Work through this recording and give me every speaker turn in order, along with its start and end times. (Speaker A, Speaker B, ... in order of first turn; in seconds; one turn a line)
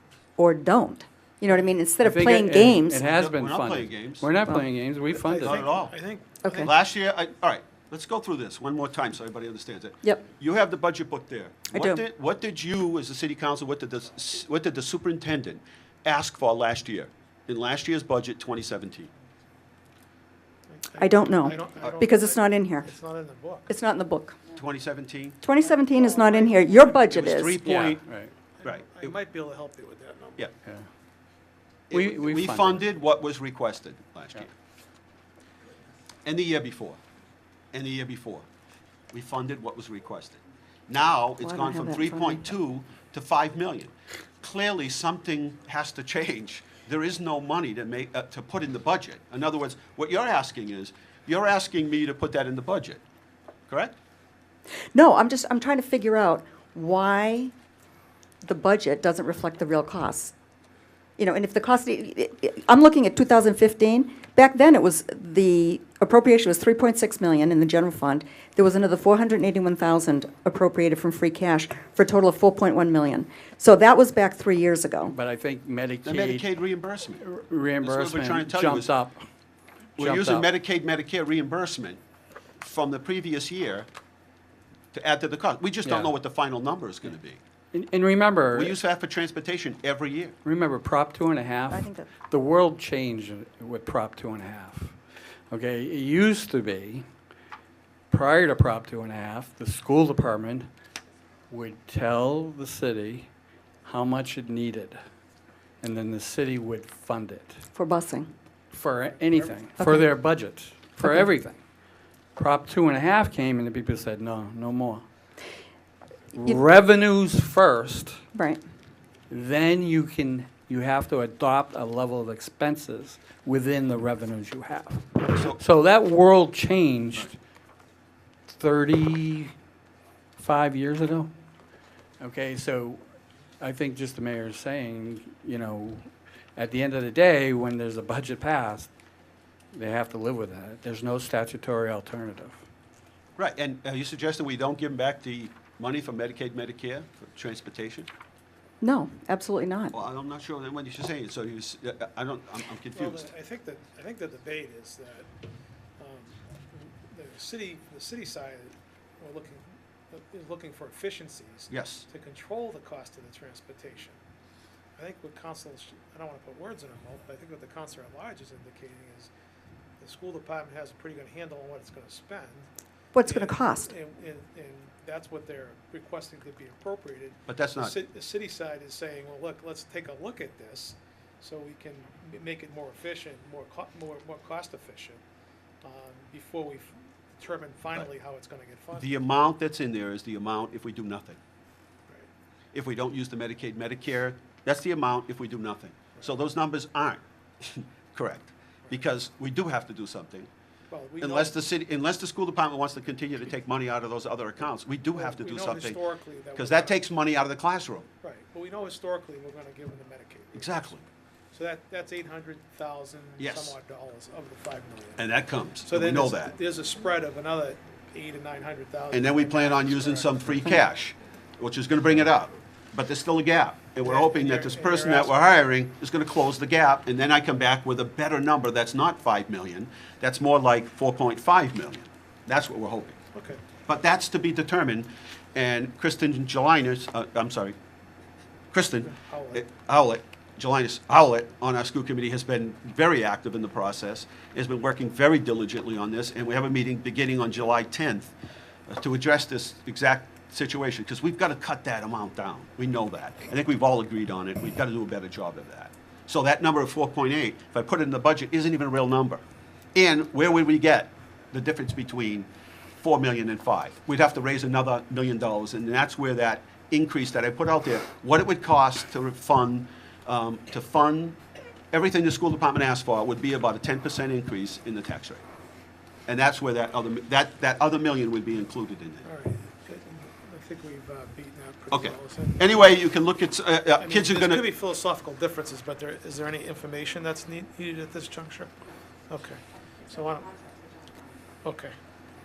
Speaker A: 0.4-3.0
Speaker B: 2.0-5.6
Speaker C: 3.0-4.3
Speaker D: 5.1-6.4
Speaker C: 5.4-5.9
Speaker A: 6.4-6.7
Speaker C: 6.5-19.1
Speaker A: 11.7-12.0
Speaker D: 20.7-23.7
Speaker A: 21.0-22.9
Speaker A: 23.7-24.4
Speaker C: 24.5-25.4
Speaker A: 25.4-27.6
Speaker D: 25.6-27.0
Speaker C: 27.1-28.0
Speaker B: 27.6-28.3
Speaker D: 28.6-30.5
Speaker C: 28.6-29.1
Speaker C: 31.9-34.5
Speaker B: 31.9-32.8
Speaker C: 36.2-37.0
Speaker C: 37.7-38.5
Speaker C: 39.1-53.0
Speaker A: 41.4-42.4
Speaker C: 53.7-53.9
Speaker A: 54.9-57.5
Speaker A: 58.4-60.3
Speaker A: 61.2-75.1
Speaker B: 75.1-76.5
Speaker C: 76.0-77.2
Speaker B: 77.2-79.2
Speaker C: 77.8-78.9
Speaker B: 80.0-80.5
Speaker C: 80.0-82.0
Speaker C: 82.6-83.9
Speaker C: 84.9-87.4
Speaker B: 85.8-86.1
Speaker B: 87.7-88.8
Speaker C: 88.5-90.3
Speaker B: 90.4-94.9
Speaker A: 91.7-92.1
Speaker B: 95.5-97.0
Speaker B: 98.1-100.7
Speaker B: 101.5-103.3
Speaker B: 103.8-105.0
Speaker B: 105.8-107.6
Speaker A: 107.7-108.3
Speaker B: 108.7-111.6
Speaker D: 109.3-109.5
Speaker A: 109.8-110.1
Speaker B: 112.3-115.0
Speaker B: 116.3-118.2
Speaker A: 118.3-118.6
Speaker B: 119.3-127.3
Speaker C: 125.3-125.6
Speaker B: 128.5-129.5
Speaker B: 130.4-131.3
Speaker B: 132.2-133.0
Speaker B: 133.6-138.9
Speaker B: 139.7-142.6
Speaker C: 143.4-148.1
Speaker A: 148.8-149.9
Speaker C: 149.9-153.3
Speaker D: 152.9-155.3
Speaker D: 156.0-164.2
Speaker C: 161.7-162.1
Speaker D: 164.9-169.3
Speaker D: 170.0-172.7
Speaker A: 173.1-173.9
Speaker D: 173.2-185.2
Speaker C: 177.5-177.9
Speaker D: 185.8-189.1
Speaker C: 189.0-191.4
Speaker C: 192.7-200.5
Speaker D: 200.9-201.6
Speaker C: 201.2-206.0
Speaker D: 205.2-207.0
Speaker C: 206.6-208.1
Speaker D: 208.2-210.9
Speaker C: 210.5-211.0
Speaker D: 211.5-215.3
Speaker C: 213.4-213.8
Speaker C: 215.2-216.6
Speaker D: 215.8-220.4
Speaker C: 219.1-233.2
Speaker D: 224.0-225.3
Speaker D: 233.3-233.6
Speaker C: 233.9-237.8
Speaker C: 238.7-248.3
Speaker D: 239.1-239.6
Speaker C: 248.9-259.4
Speaker C: 259.9-262.5
Speaker C: 263.0-271.4
Speaker C: 271.9-275.4
Speaker C: 276.3-279.2
Speaker D: 279.2-283.0
Speaker C: 281.9-284.6
Speaker D: 284.0-288.7
Speaker D: 289.3-290.6
Speaker D: 291.6-291.9